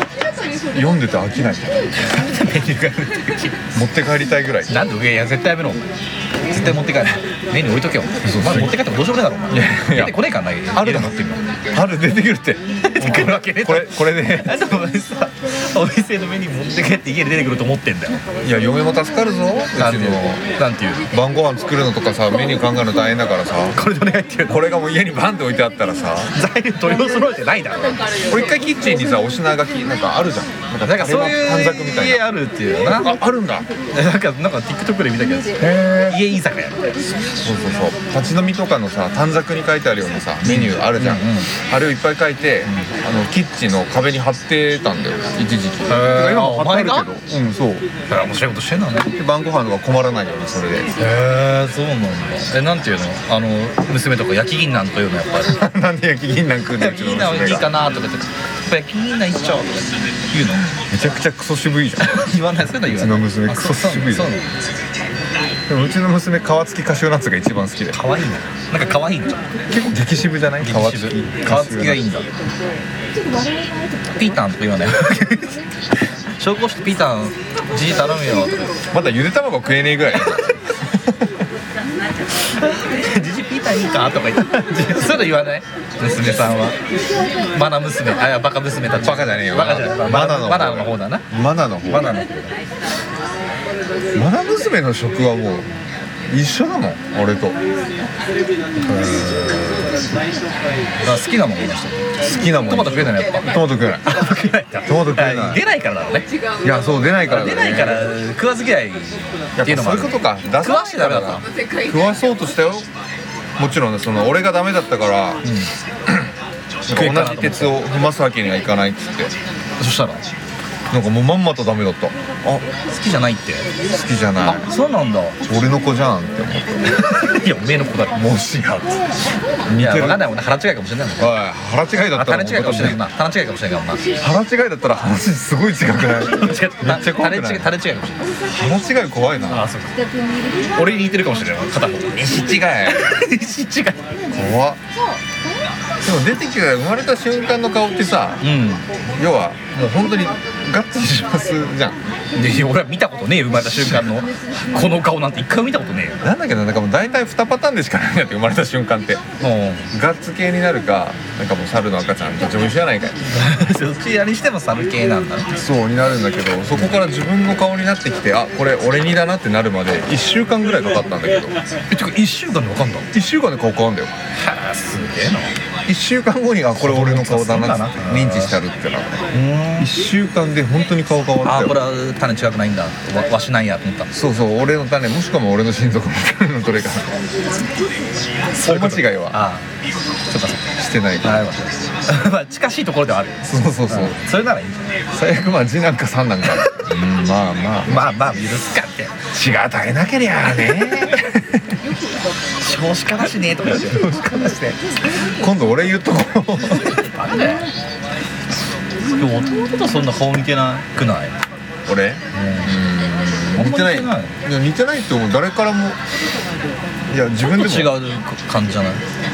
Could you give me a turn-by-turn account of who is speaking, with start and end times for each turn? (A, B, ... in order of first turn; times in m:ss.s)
0:00.7-0:02.2 A
0:02.2-0:03.6 B
0:03.7-0:04.8 A
0:04.7-0:05.8 B
0:06.5-0:11.5 B
0:08.2-0:08.8 A
0:09.5-0:11.2 A
0:11.7-0:14.8 A
0:12.8-0:18.2 B
0:18.4-0:20.4 A
0:19.8-0:21.0 B
0:21.1-0:23.8 A
0:23.7-0:24.6 B
0:24.5-0:26.3 A
0:26.3-0:28.0 B
0:28.3-0:32.2 A
0:30.8-0:33.1 B
0:32.9-0:33.7 A
0:33.9-0:36.8 B
0:35.6-0:36.2 A
0:37.4-0:47.9 A
0:40.4-0:41.5 B
0:42.6-0:42.9 B
0:45.9-0:47.1 B
0:48.1-0:49.1 B
0:49.1-0:50.9 A
0:51.0-0:55.6 B
0:55.5-0:57.7 A
0:56.8-1:00.7 B
1:00.7-1:02.2 A
1:02.0-1:04.4 B
1:02.8-1:04.3 A
1:05.7-1:08.0 A
1:07.9-1:09.4 B
1:09.7-1:12.0 A
1:10.6-1:12.3 B
1:14.2-1:15.6 B
1:16.4-1:18.7 B
1:18.9-1:21.3 A
1:22.6-1:26.8 B
1:27.5-1:31.2 B
1:28.9-1:32.1 A
1:31.8-1:32.6 B
1:34.1-1:37.6 A
1:38.8-1:39.8 B
1:38.9-1:39.9 A
1:41.0-1:42.1 B
1:42.2-1:44.2 A
1:42.6-1:43.5 B
1:44.0-1:46.3 B
1:44.8-1:45.6 A
1:46.6-1:48.1 A
1:47.3-1:51.4 B
1:49.6-1:52.9 A
1:53.6-1:55.4 A
1:55.4-1:55.7 B
1:56.1-1:56.3 A
1:56.8-1:59.3 A
1:56.9-1:57.8 B
1:59.8-2:00.2 B
2:00.9-2:02.6 A
2:02.8-2:03.7 B
2:03.8-2:04.7 A
2:04.4-2:05.4 B
2:05.4-2:06.9 A
2:06.9-2:08.2 B
2:08.1-2:09.0 A
2:09.6-2:10.2 A
2:09.7-2:11.3 B
2:11.2-2:13.0 A
2:12.0-2:14.1 B
2:14.2-2:17.7 A
2:16.2-2:18.2 B
2:18.5-2:19.7 A
2:19.5-2:20.0 B
2:20.7-2:24.2 B
2:22.2-2:23.0 A
2:24.3-2:24.8 A
2:26.0-2:28.5 A
2:28.4-2:28.9 B
2:29.0-2:32.0 A
2:32.3-2:36.2 B
2:33.5-2:34.1 A
2:36.2-2:39.2 A
2:39.4-2:39.9 B
2:39.9-2:43.2 A
2:43.3-2:45.6 B
2:45.5-2:51.6 A
2:51.9-2:53.1 B
2:53.1-2:54.1 A
2:54.4-2:55.6 B
2:55.8-3:01.9 A
2:56.8-2:58.6 B
2:59.3-2:59.9 B
3:01.4-3:04.1 B
3:04.1-3:07.2 A
3:08.5-3:09.7 B
3:08.6-3:09.4 A
3:10.3-3:10.7 B
3:10.8-3:11.5 A
3:11.2-3:14.9 B
3:13.4-3:14.2 A
3:15.1-3:18.1 A
3:17.9-3:19.2 B
3:19.3-3:21.8 A
3:22.6-3:24.8 B
3:25.2-3:27.0 A
3:26.7-3:27.7 B
3:29.1-3:31.4 B
3:31.8-3:36.0 A
3:32.3-3:32.8 B
3:33.5-3:34.4 B
3:37.1-3:38.0 A
3:37.4-3:39.0 B